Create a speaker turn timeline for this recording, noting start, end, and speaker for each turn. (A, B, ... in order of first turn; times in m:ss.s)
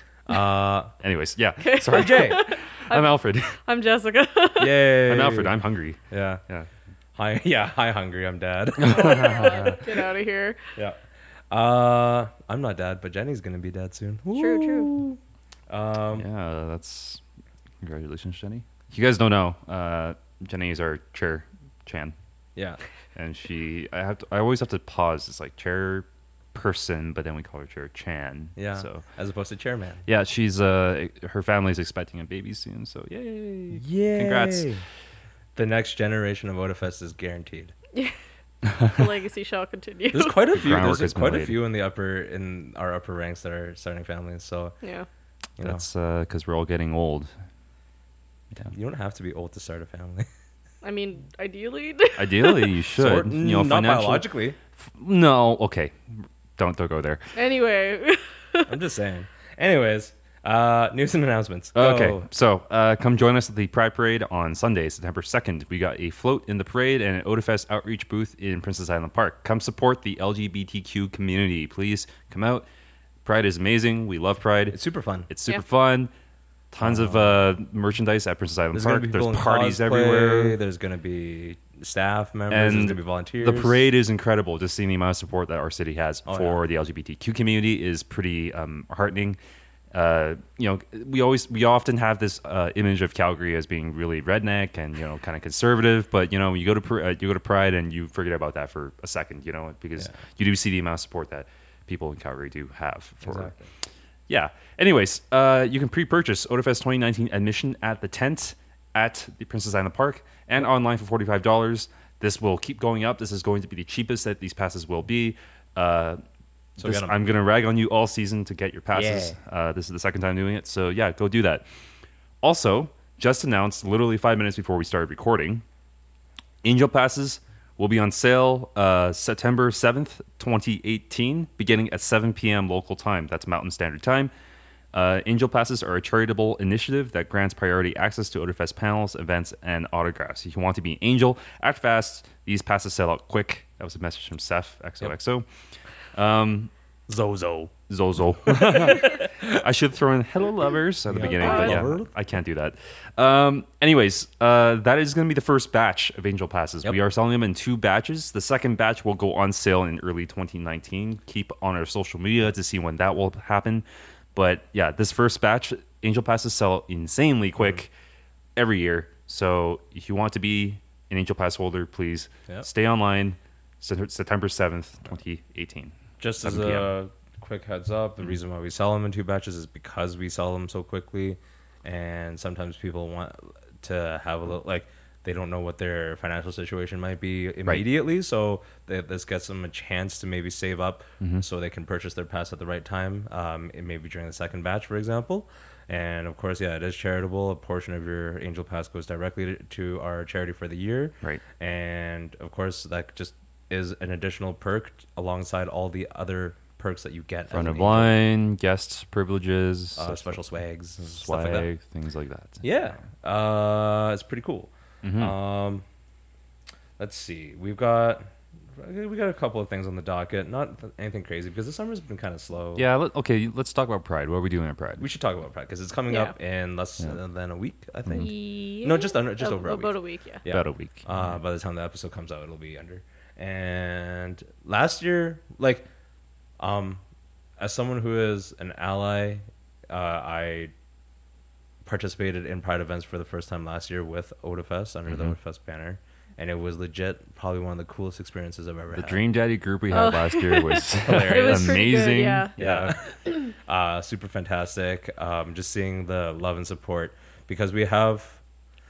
0:00.3-0:00.9 A
0:01.0-0:03.6 B
0:01.6-0:03.1 C
0:01.9-0:02.4 A
0:03.7-0:04.8 C
0:04.6-0:05.6 A
0:05.0-0:06.7 B
0:06.1-0:06.4 A
0:07.2-0:09.8 A
0:08.8-0:09.8 B
0:08.9-0:10.6 C
0:11.5-0:15.2 A
0:14.4-0:15.0 C
0:15.7-0:16.3 A
0:16.2-0:17.2 B
0:17.8-0:22.2 B
0:23.2-0:29.0 B
0:28.6-0:30.0 A
0:30.1-0:34.7 B
0:33.7-0:34.8 A
0:35.6-0:37.7 A
0:38.6-0:39.0 B
0:38.8-0:40.4 C
0:40.1-0:44.8 A
0:40.5-0:41.6 B
0:44.8-0:45.1 C
0:45.6-0:45.8 A
0:45.6-0:47.3 B
0:48.7-0:50.3 A
0:50.8-0:52.8 C
0:52.2-0:54.2 B
0:53.0-0:54.6 A
0:54.8-0:57.2 B
0:57.4-0:58.7 C
0:58.7-1:02.3 A
1:01.8-1:12.7 B
1:13.2-1:14.8 B
1:14.7-1:15.3 A
1:15.3-1:16.1 B
1:16.7-1:20.6 B
1:16.8-1:17.4 A
1:18.7-1:23.8 A
1:22.5-1:29.4 B
1:26.3-1:26.6 A
1:29.9-1:43.5 B
1:43.2-1:43.7 A
1:44.3-1:56.2 B
1:56.8-1:57.2 A
1:56.8-2:01.7 B
1:58.9-1:59.4 A
2:02.4-2:05.6 B
2:06.6-2:14.3 B
2:14.9-2:25.5 B
2:26.1-2:26.7 B
2:27.1-2:27.7 A
2:27.9-2:47.9 B
2:28.5-2:29.6 A
2:31.1-2:32.1 A
2:31.3-2:31.8 C
2:48.6-2:56.9 B
2:56.2-3:28.2 A
3:27.5-3:30.4 B
3:30.0-3:31.7 A
3:31.0-3:32.6 B
3:32.6-3:35.8 A
3:35.0-3:35.3 B
3:37.0-3:42.9 A
3:42.8-3:45.0 B
3:45.0-3:55.9 A
3:48.1-3:50.4 C
3:50.5-3:51.3 B
3:56.6-3:57.0 A
3:57.6-4:00.7 A
4:01.8-4:09.2 A
4:05.1-4:05.4 B
4:08.9-4:13.0 B
4:09.9-4:12.5 C
4:11.0-4:11.9 A
4:12.6-4:18.4 A